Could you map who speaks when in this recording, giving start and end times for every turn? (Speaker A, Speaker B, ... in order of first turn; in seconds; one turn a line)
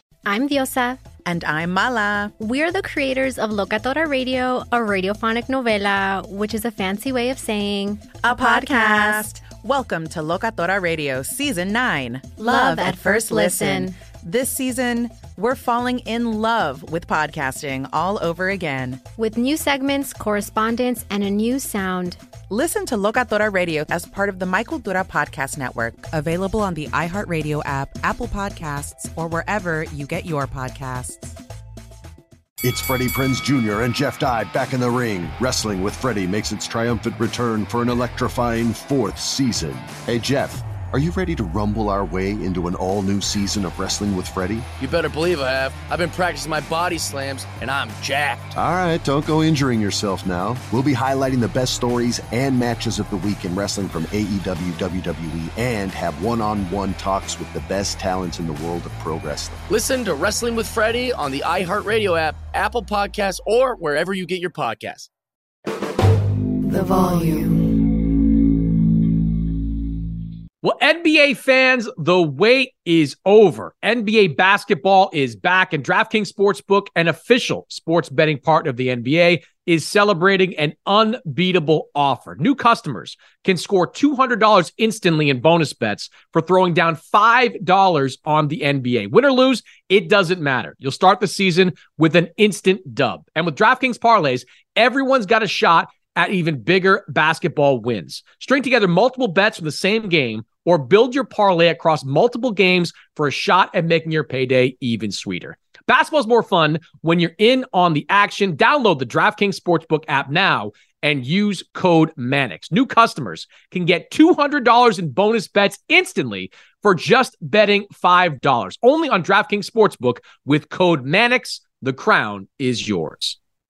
Speaker A: 0.2-1.0
Speaker B: 1.2-2.3
Speaker A: 2.4-9.3
Speaker B: 8.2-19.0
Speaker A: 12.4-13.9
Speaker A: 19.2-22.2
Speaker B: 22.5-31.4
Speaker C: 32.6-44.7
Speaker D: 44.8-48.5
Speaker C: 48.5-59.6
Speaker D: 59.7-65.1
Speaker E: 70.6-123.3